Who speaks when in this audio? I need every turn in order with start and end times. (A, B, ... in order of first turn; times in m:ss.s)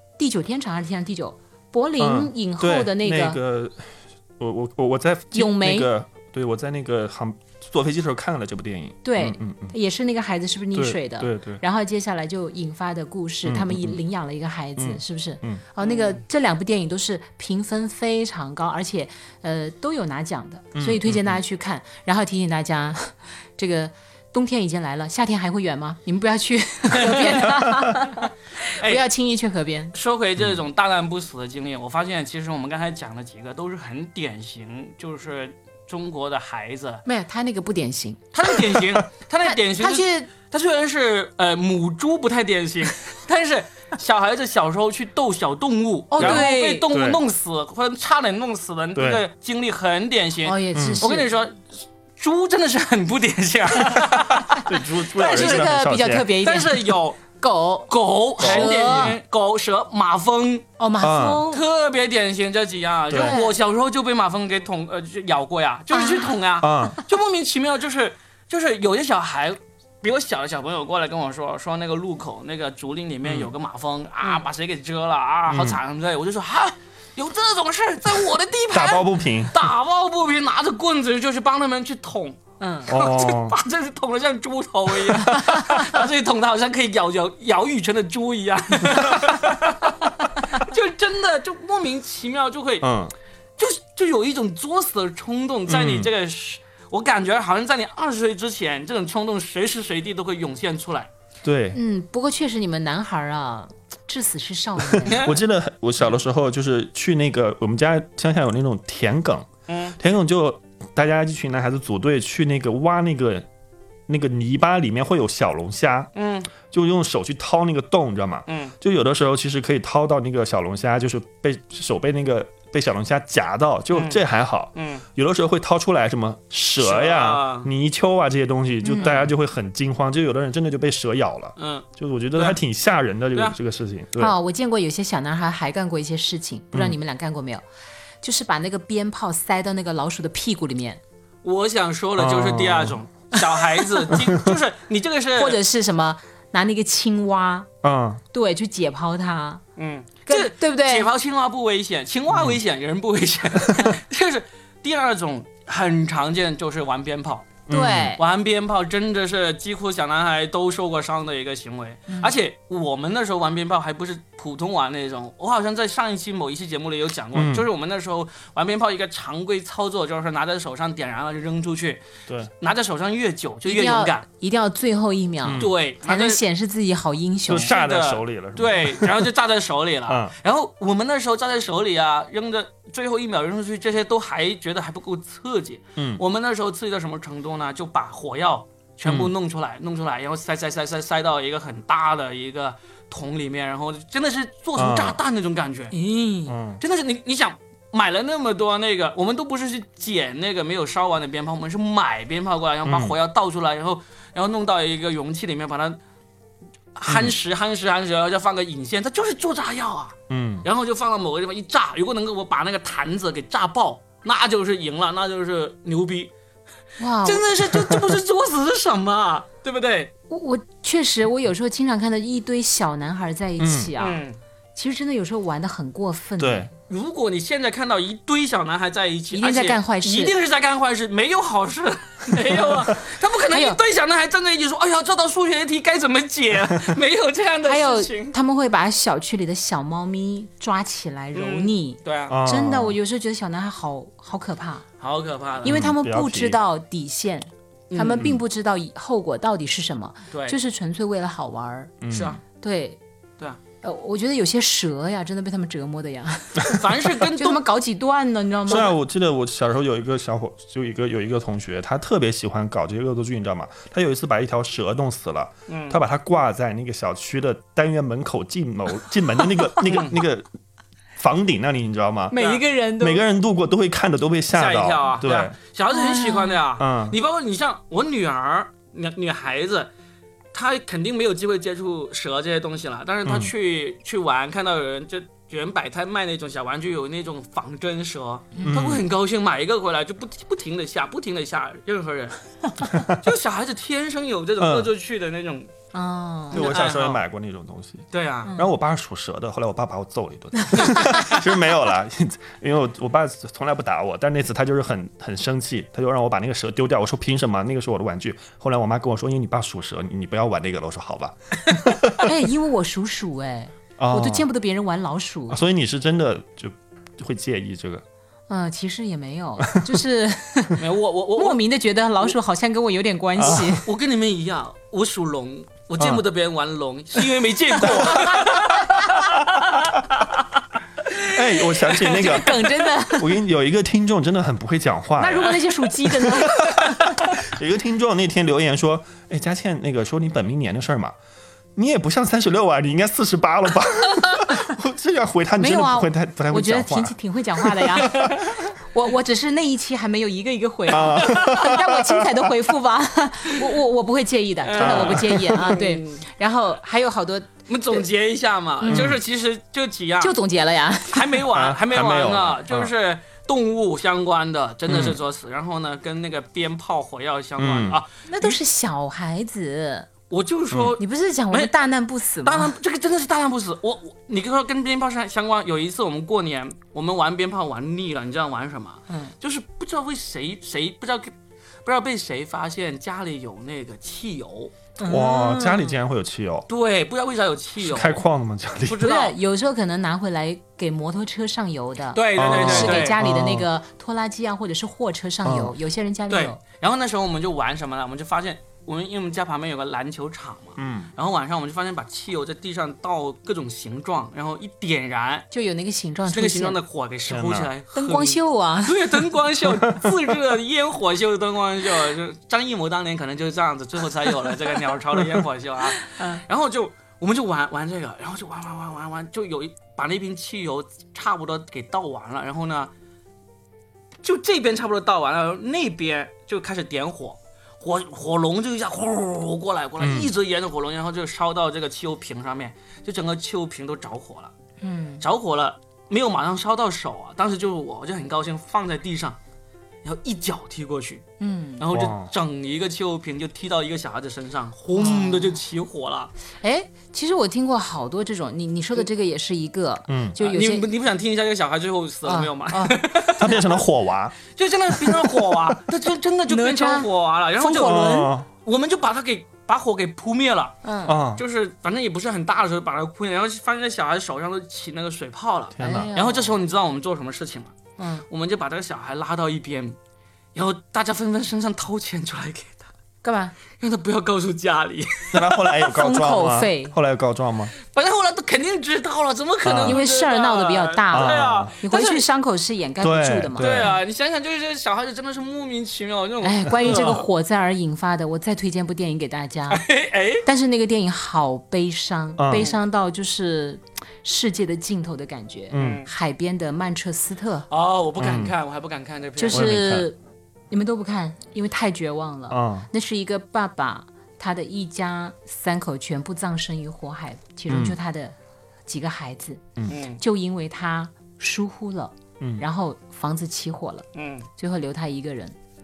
0:00.2-0:03.4 A
0:02.0-0:09.7 B
0:05.3-0:05.9 A
0:09.0-0:30.0 A
0:10.8-0:11.6 B
0:13.4-0:14.0 B
0:14.8-0:15.6 B
0:15.8-0:16.2 C
0:20.8-0:21.4 B
0:26.9-0:27.6 C
0:27.6-0:27.9 B
0:28.8-0:29.0 C
0:29.9-0:37.0 C
0:37.0-0:38.8 A
0:38.3-0:54.7 C
0:39.4-0:40.3 A
0:46.1-0:46.9 A
0:46.2-0:47.2 B
0:49.0-0:49.3 B
0:50.4-0:51.3 A
0:50.8-0:51.0 B
0:54.4-0:59.2 A
0:54.6-0:56.4 B
0:55.2-0:55.7 C
0:56.4-0:57.2 C
0:57.9-1:00.6 C
0:58.4-0:59.2 B
1:00.8-1:01.6 A
1:01.0-1:01.4 B
1:01.5-1:32.9 C
1:03.1-1:03.4 B
1:03.1-1:03.6 A
1:05.9-1:06.4 A
1:06.6-1:07.0 B
1:13.2-1:13.5 B
1:15.5-1:15.8 B
1:18.7-1:19.6 B
1:22.6-1:22.9 A
1:22.9-1:23.6 B
1:25.2-1:25.8 A
1:32.8-1:33.1 B
1:33.6-1:41.1 C
1:35.7-1:36.1 B
1:41.4-1:41.8 B
1:41.7-1:45.3 A
1:45.0-1:53.5 B
1:45.0-1:45.4 C
1:49.7-1:50.0 C
1:54.1-1:56.1 B
1:56.2-1:56.5 C
1:56.6-2:14.3 B
1:58.5-1:58.8 C
2:03.9-2:04.2 C
2:04.8-2:05.0 C
2:06.8-2:07.7 C
2:08.8-2:09.2 A
2:09.0-2:09.3 C
2:11.6-2:12.6 C
2:14.2-2:17.6 A
2:18.2-2:21.0 A
2:21.4-2:25.6 C
2:22.2-2:23.0 B
2:23.6-2:23.9 A
2:24.2-2:24.5 B
2:25.4-2:27.7 A
2:27.8-2:28.2 B
2:28.3-2:29.6 A
2:29.8-2:37.6 C
2:30.3-2:31.1 A
2:32.3-2:32.6 B
2:37.7-2:38.2 B
2:37.7-2:38.2 A
2:38.2-2:52.0 C
2:47.3-2:47.7 B
2:52.6-2:54.2 C
2:53.6-2:57.7 A
2:55.4-2:55.7 B
2:55.6-2:56.4 C
2:57.5-2:59.3 B
2:57.5-3:16.0 C
3:00.1-3:00.3 B
3:06.0-3:06.2 B
3:09.1-3:09.3 B
3:14.8-3:15.2 B
3:15.9-3:16.6 A
3:16.5-3:16.8 B
3:16.8-3:26.0 C
3:22.9-3:23.2 B
3:27.0-3:36.3 C
3:27.1-3:27.4 B
3:30.3-3:30.7 B
3:37.0-3:37.5 A
3:37.2-3:40.1 C
3:40.3-3:44.2 A
3:43.6-3:43.9 B
3:44.0-3:44.4 C
3:44.8-3:46.7 A
3:46.4-3:46.7 B
3:46.9-3:58.4 C
3:49.3-3:50.4 A
3:53.5-3:53.8 A
3:57.6-4:04.8 A
4:01.4-4:02.4 C
4:02.3-4:03.0 B
4:05.0-4:05.8 C
4:05.6-4:06.6 B
4:05.6-4:11.9 A
4:07.9-4:08.3 C
4:10.3-4:10.6 C
4:12.0-4:12.4 B
4:12.1-4:12.4 C
4:12.6-4:13.0 A
4:13.8-4:18.9 A
4:16.6-4:17.6 C
4:18.7-4:30.5 B
4:25.7-4:26.0 C
4:29.8-4:30.2 C
4:31.2-4:32.4 B
4:32.3-4:33.2 A
4:32.4-4:32.6 C
4:33.0-4:35.6 B
4:34.5-4:39.9 C
4:35.9-4:36.6 A
4:36.8-4:37.2 B
4:40.5-4:52.4 C
4:43.2-4:43.5 B
4:48.6-4:48.8 A
4:48.6-4:49.0 B
4:53.1-4:55.7 C
4:54.6-4:54.9 B
4:55.9-4:56.7 A
4:56.5-4:57.2 C
4:56.5-5:12.3 B
4:58.1-4:58.5 C
4:58.5-4:58.7 A
5:00.6-5:01.3 A
5:12.2-5:15.6 A
5:14.0-5:14.5 B
5:15.5-5:18.0 B
5:18.5-5:20.8 A
5:20.8-5:21.6 C
5:21.4-5:23.9 A
5:23.4-5:23.8 B
5:23.4-5:29.9 C
5:26.0-5:26.2 B
5:27.8-5:29.3 A
5:27.8-5:28.5 B
5:31.3-5:35.6 B
5:31.4-5:33.4 A
5:31.9-5:32.5 C
5:35.2-5:37.4 A
5:36.4-5:41.1 B
5:41.8-5:48.3 B
5:45.6-5:58.0 A
5:48.1-5:48.5 C
5:50.9-5:52.5 B
5:51.0-5:51.6 C
5:54.6-5:56.2 C
5:54.8-5:55.6 B
5:57.7-6:00.4 C
5:58.8-5:59.2 A
5:58.9-5:59.2 B
6:00.2-6:01.4 A
6:01.1-6:08.6 C
6:01.5-6:02.9 B
6:04.9-6:05.2 B
6:07.6-6:08.0 B
6:08.3-6:10.1 A
6:10.3-6:11.7 C
6:11.0-6:12.8 A
6:12.4-6:21.3 C
6:19.1-6:19.3 A
6:21.8-6:24.7 C
6:25.0-6:26.0 A
6:25.1-6:26.7 B
6:26.7-6:28.2 C
6:27.8-6:29.1 B
6:28.9-6:29.4 C
6:29.0-6:36.6 A
6:32.1-6:33.2 C
6:32.4-6:33.7 B
6:35.4-6:35.8 B
6:36.3-6:45.5 C
6:40.8-6:41.1 B
6:45.5-6:46.8 A
6:46.3-7:02.9 C
6:47.3-6:47.7 B
6:47.9-6:49.3 A
6:56.0-6:56.4 A
7:04.2-7:14.5 C
7:10.0-7:10.3 B
7:14.8-7:15.2 A
7:15.2-7:19.4 C
7:20.0-7:21.2 C
7:21.4-7:21.9 A
7:21.8-7:26.3 C
7:21.9-7:22.3 B
7:24.9-7:25.6 A
7:26.6-7:30.9 A
7:30.1-7:30.4 B
7:30.4-7:33.7 C
7:32.2-7:33.0 A
7:33.4-7:34.4 B
7:34.5-7:38.1 C
7:34.9-7:35.8 B
7:36.5-7:38.3 A
7:37.8-7:38.5 B
7:38.6-7:40.8 C
7:40.8-7:41.2 A
7:41.1-7:41.4 B
7:41.4-7:47.7 C
7:45.8-7:46.1 B
7:45.8-7:46.6 A
7:48.0-7:48.2 A
7:48.3-7:50.0 C
7:50.6-7:52.9 C
7:53.2-7:53.6 A
7:53.8-7:55.8 C
7:55.3-7:57.7 B
7:55.9-7:57.0 A
7:57.8-8:02.2 C
7:59.6-8:00.0 B
7:59.8-8:04.0 A
8:01.1-8:01.7 B
8:03.0-8:04.0 B
8:03.6-8:07.2 C
8:06.4-8:09.8 A
8:09.7-8:10.5 C
8:10.4-8:17.7 A
8:12.4-8:12.7 B
8:15.7-8:16.0 B
8:15.8-8:16.1 C
8:17.7-8:19.8 C
8:18.2-8:18.6 B
8:19.4-8:20.2 A
8:19.5-8:20.1 B
8:20.7-8:28.4 A
8:22.5-8:22.9 B
8:27.7-8:28.0 B
8:28.9-8:34.1 A
8:29.9-8:30.2 C
8:34.2-8:34.5 C
8:34.6-8:35.6 A